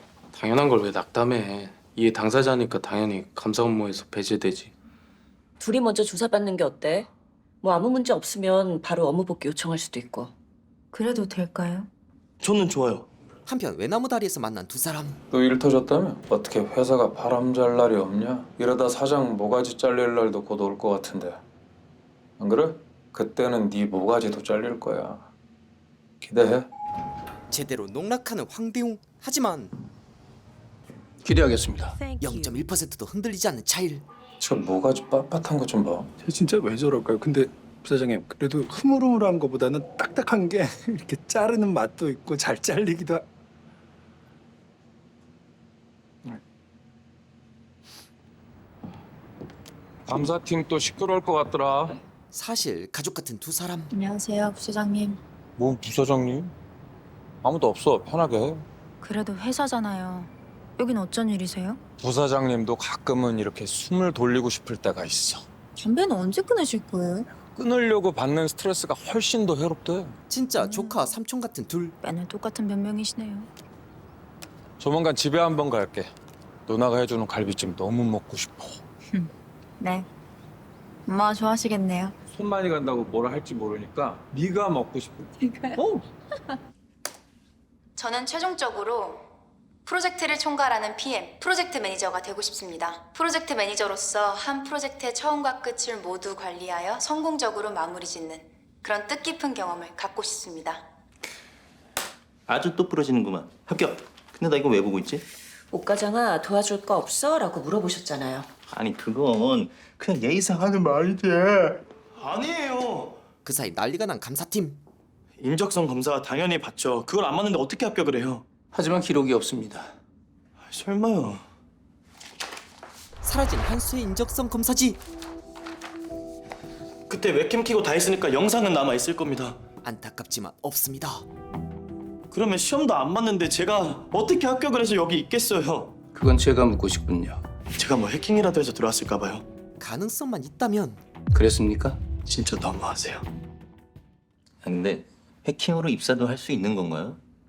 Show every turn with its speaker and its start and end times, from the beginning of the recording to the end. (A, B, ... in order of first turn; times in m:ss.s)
0:00.3-0:04.7 A
0:05.6-0:07.1 B
0:07.6-0:10.3 B
0:10.9-0:11.9 C
0:12.4-0:13.1 D
0:13.5-0:15.2 E
0:15.3-0:21.4 F
0:22.4-0:25.3 F
0:26.2-0:26.7 F
0:27.5-0:29.7 E
0:31.2-0:32.0 G
0:32.0-0:32.6 B
0:32.2-0:34.0 E
0:34.4-0:36.1 F
0:36.2-0:43.2 H
0:50.1-0:52.0 F
0:52.3-0:53.9 E
0:53.9-0:55.2 C
0:55.6-0:56.5 F
0:57.4-0:58.7 F
0:59.0-1:01.8 C
1:02.0-1:05.4 F
1:05.8-1:07.3 C
1:07.4-1:10.2 F
1:10.3-1:12.0 E
1:10.6-1:11.0 C
1:12.0-1:13.5 C
1:14.8-1:16.1 F
1:16.7-1:18.8 F
1:19.1-1:20.1 C
1:21.1-1:22.2 C
1:22.3-1:26.0 F
1:25.4-1:25.8 C
1:28.0-1:29.3 C
1:29.8-1:40.8 C
1:42.5-1:45.2 I
1:45.7-1:48.5 B
1:48.7-1:51.8 I
1:52.2-1:53.2 D
1:53.4-1:54.8 E
1:55.4-1:58.4 D
1:58.7-1:59.9 G
2:00.6-2:01.4 D
2:03.2-2:05.0 E
2:07.1-2:09.6 D
2:09.8-2:11.3 E
2:12.3-2:16.0 D
2:16.1-2:17.4 G
2:17.8-2:19.4 D
2:19.8-2:21.0 E
2:21.3-2:22.0 G
2:22.2-2:23.2 D
2:24.6-2:27.2 I